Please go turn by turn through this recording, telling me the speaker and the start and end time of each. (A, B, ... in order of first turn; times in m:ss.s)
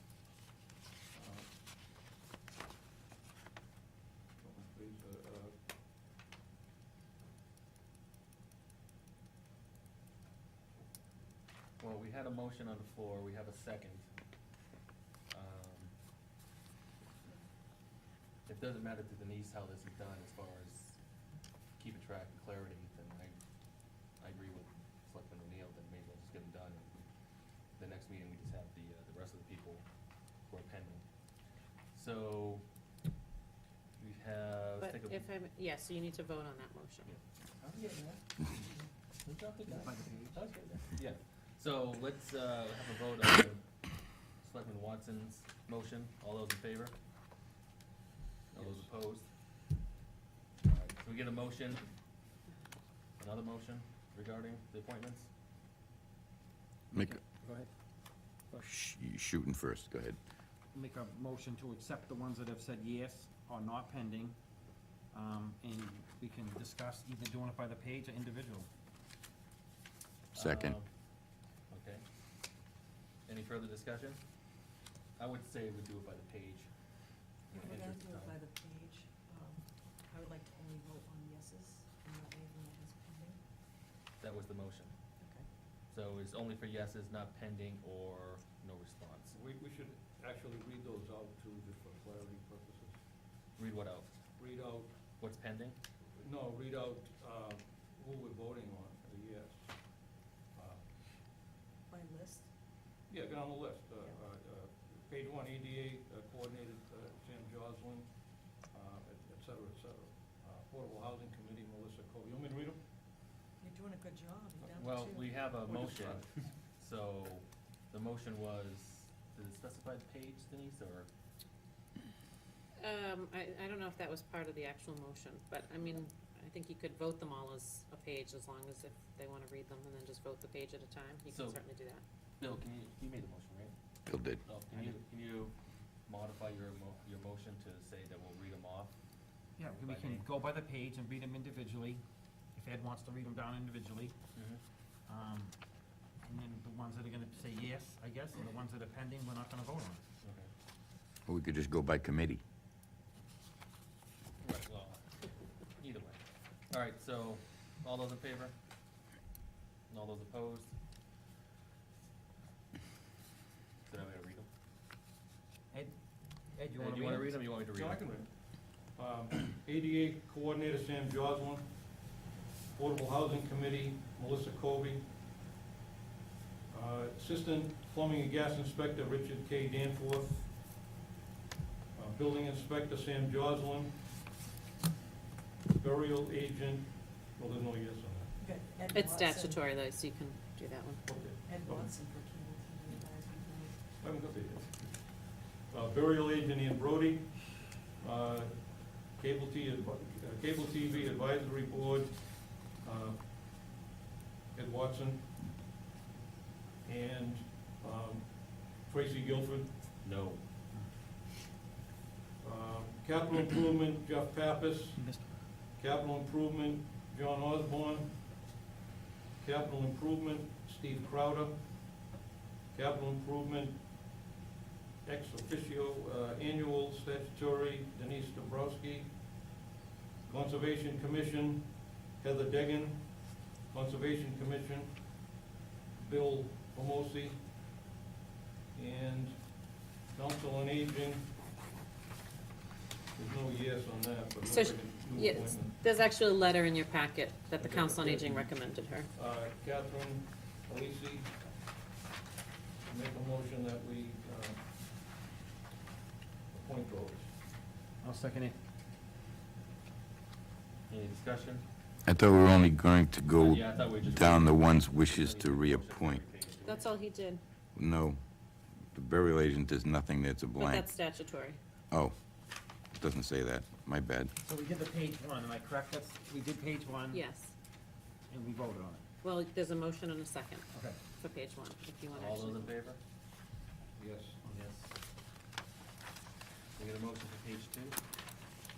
0:01.1-0:01.5 A
0:04.4-0:05.5 A
0:11.8-0:14.1 B
0:15.3-0:15.9 B
0:18.4-0:21.2 B
0:21.8-0:27.0 B
0:27.7-0:31.0 B
0:31.9-0:32.6 B
0:34.0-0:35.3 B
0:34.8-0:37.1 C
0:37.1-0:47.0 B
0:39.7-0:40.4 D
0:48.5-0:49.3 B
0:50.6-0:51.9 B
0:53.2-0:55.3 B
0:56.9-0:57.2 E
0:56.9-0:57.7 D
0:58.5-1:00.2 E
1:00.7-1:04.5 D
1:05.0-1:08.7 D
1:10.3-1:10.8 E
1:10.3-1:11.2 B
1:11.7-1:12.0 B
1:13.2-1:18.3 B
1:17.5-1:23.4 F
1:24.2-1:25.2 B
1:25.2-1:25.5 F
1:25.9-1:29.4 B
1:29.3-1:33.0 A
1:33.6-1:34.4 B
1:34.4-1:35.0 A
1:35.1-1:35.8 B
1:36.2-1:40.9 A
1:41.9-1:42.5 F
1:43.1-1:52.8 A
1:53.6-1:56.4 F
1:54.6-1:56.5 A
1:54.8-2:01.1 B
2:02.8-2:12.0 C
2:11.3-2:11.6 B
2:12.4-2:18.9 B
2:14.1-2:14.4 E
2:19.6-2:22.0 D
2:19.8-2:20.2 B
2:22.5-2:24.2 D
2:24.3-2:24.6 B
2:25.0-2:25.6 D
2:26.2-2:30.0 D
2:30.2-2:30.5 B
2:31.2-2:32.4 E
2:34.4-2:38.5 B
2:39.9-2:40.8 B
2:43.8-2:44.5 B
2:45.7-2:47.4 D
2:46.8-2:48.2 B
2:47.7-2:55.2 A
2:56.7-3:00.6 A
3:01.9-3:04.1 A
3:05.8-3:08.5 A
3:08.4-3:09.7 F
3:09.0-3:11.2 C
3:11.0-3:11.9 A
3:11.4-3:14.0 F
3:14.0-3:23.8 A
3:24.5-3:25.6 A
3:26.8-3:29.8 A
3:30.0-3:30.4 B
3:32.4-3:38.5 A
3:35.0-3:35.4 D
3:39.4-3:42.2 A
3:42.7-3:44.2 A
3:45.0-3:49.6 A
3:50.2-3:57.6 A
3:58.7-4:01.3 A
4:03.2-4:05.8 A
4:04.5-4:09.1 C
4:07.6-4:11.5 A
4:12.8-4:14.9 A
4:16.5-4:17.3 A
4:18.0-4:18.6 D
4:20.9-4:21.7 B
4:22.0-4:26.2 E
4:23.3-4:27.2 B
4:26.7-4:27.4 C
4:27.8-4:28.2 E
4:28.9-4:31.0 E
4:30.6-4:31.6 C
4:32.9-4:34.3 E
4:34.4-4:37.2 D
4:37.1-4:37.5 C
4:38.3-4:39.0 D
4:39.2-4:40.7 C
4:40.7-4:41.0 D
4:41.2-4:42.8 C
4:42.1-4:43.0 B
4:44.0-4:44.4 A
4:44.4-4:44.9 B
4:46.8-4:48.0 B